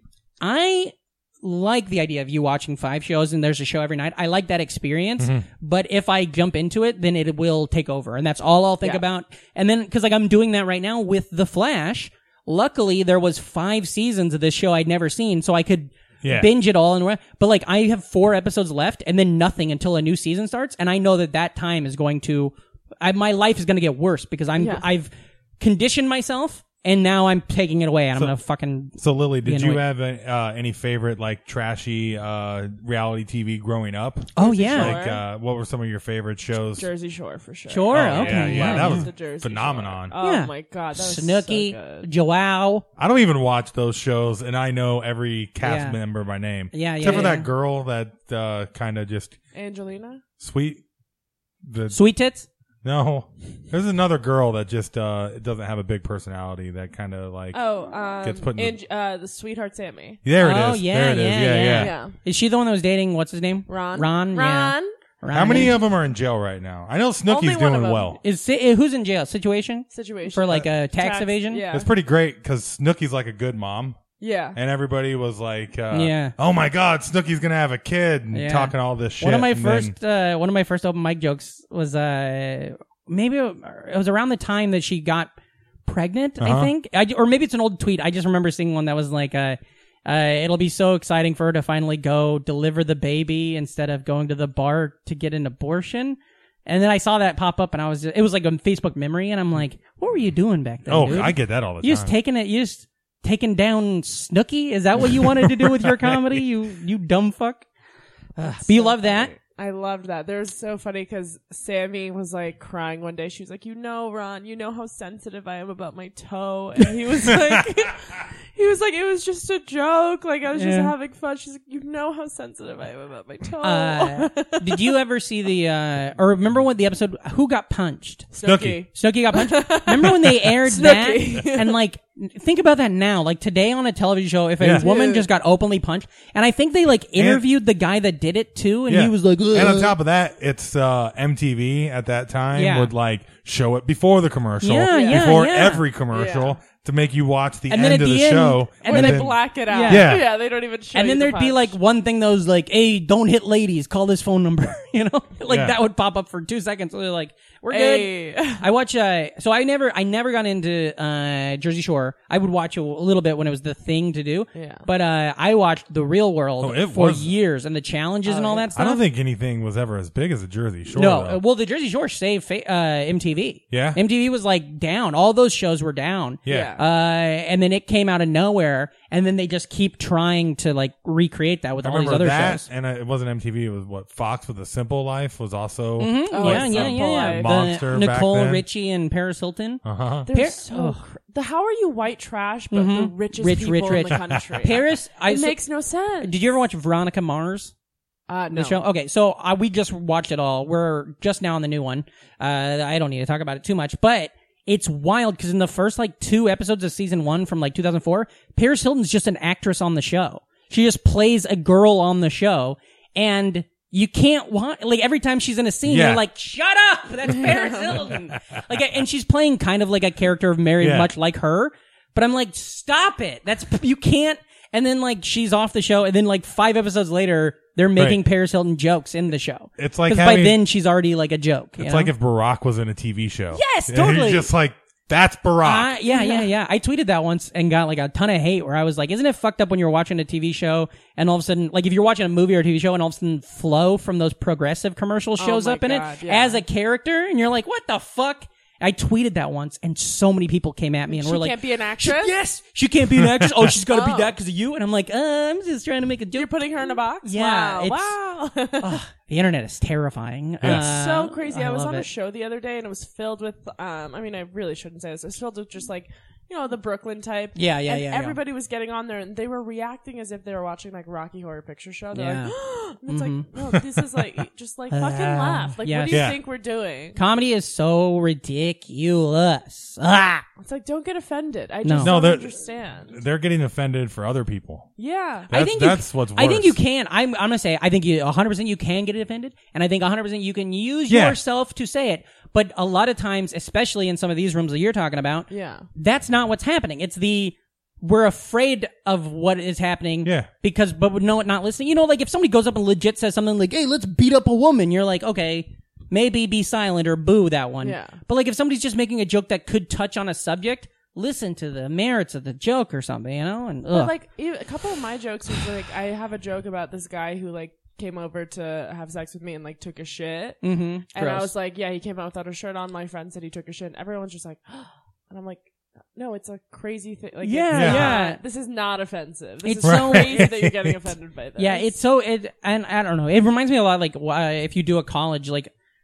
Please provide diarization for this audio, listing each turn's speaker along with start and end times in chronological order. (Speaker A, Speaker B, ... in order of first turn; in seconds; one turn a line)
Speaker A: 0.4-29.8
Speaker B: 5.2-5.4
Speaker B: 16.2-16.5
Speaker C: 24.6-24.8
Speaker B: 29.0-36.9
Speaker A: 34.4-35.0
Speaker C: 34.4-35.2
Speaker C: 36.8-42.0
Speaker A: 37.7-39.0
Speaker B: 37.9-40.1
Speaker A: 40.2-42.8
Speaker B: 43.0-49.4
Speaker A: 45.6-46.0
Speaker A: 46.7-47.5
Speaker C: 47.0-47.3
Speaker C: 49.5-50.2
Speaker B: 50.4-50.8
Speaker B: 51.6-52.0
Speaker A: 51.9-52.5
Speaker B: 52.8-57.6
Speaker C: 57.5-60.2
Speaker B: 58.2-58.8
Speaker B: 60.2-61.9
Speaker A: 60.4-65.8
Speaker C: 61.7-62.1
Speaker C: 63.7-64.9
Speaker B: 65.3-68.2
Speaker C: 67.3-68.2
Speaker A: 68.2-71.6
Speaker C: 69.9-71.9
Speaker B: 71.7-74.0
Speaker C: 74.2-74.6
Speaker B: 74.5-79.9
Speaker A: 75.9-76.3
Speaker A: 78.3-85.3
Speaker A: 85.8-107.7
Speaker B: 86.4-86.7
Speaker B: 100.9-102.1
Speaker B: 105.2-106.2
Speaker A: 108.3-109.3
Speaker C: 108.4-124.9
Speaker A: 120.5-120.9
Speaker A: 123.6-128.3
Speaker C: 128.3-131.8
Speaker B: 128.4-128.8
Speaker A: 128.9-139.9
Speaker B: 134.6-134.9
Speaker C: 134.8-135.3
Speaker B: 137.2-137.4
Speaker B: 138.9-150.3
Speaker A: 142.5-142.9
Speaker A: 144.6-145.8
Speaker C: 144.9-145.4
Speaker C: 146.1-146.6
Speaker A: 147.7-150.2
Speaker C: 148.8-151.7
Speaker A: 150.9-169.0
Speaker B: 155.5-155.8
Speaker C: 157.7-158.6
Speaker C: 164.5-164.8
Speaker B: 166.6-167.3
Speaker C: 168.2-168.7
Speaker B: 168.7-171.4
Speaker A: 170.9-182.7
Speaker B: 173.7-174.0
Speaker B: 176.4-176.8
Speaker C: 176.5-176.8
Speaker B: 181.8-188.6
Speaker A: 186.0-191.0
Speaker C: 186.3-187.7
Speaker B: 189.8-190.3
Speaker C: 190.2-196.3
Speaker A: 192.7-195.6
Speaker A: 196.2-197.7
Speaker C: 198.3-198.8
Speaker A: 198.5-232.1
Speaker B: 215.8-216.2
Speaker C: 217.3-218.1
Speaker B: 220.8-221.1
Speaker B: 227.9-228.2
Speaker B: 229.8-230.6
Speaker B: 231.8-235.9
Speaker A: 233.5-234.5
Speaker A: 235.6-256.5
Speaker C: 236.1-236.5
Speaker C: 245.4-246.6
Speaker C: 251.1-252.3
Speaker C: 253.9-254.3
Speaker C: 256.3-259.0
Speaker A: 257.2-258.1
Speaker A: 258.8-262.1
Speaker B: 260.6-260.9
Speaker C: 260.6-277.2
Speaker A: 267.5-268.4
Speaker A: 272.1-272.5
Speaker A: 273.1-273.5
Speaker A: 274.9-276.3
Speaker B: 276.1-276.4
Speaker A: 277.1-280.4
Speaker C: 280.6-283.2
Speaker A: 281.8-282.1
Speaker B: 282.0-282.5
Speaker B: 283.1-284.9
Speaker C: 285.0-285.5
Speaker B: 285.5-286.8
Speaker A: 285.5-314.1
Speaker B: 291.1-291.4
Speaker C: 295.5-295.9
Speaker B: 300.2-300.5
Speaker C: 307.8-308.2
Speaker C: 313.9-331.9
Speaker A: 320.6-321.5
Speaker A: 327.4-328.4
Speaker B: 327.7-328.1
Speaker A: 329.6-330.5
Speaker B: 329.8-331.1
Speaker A: 331.6-335.7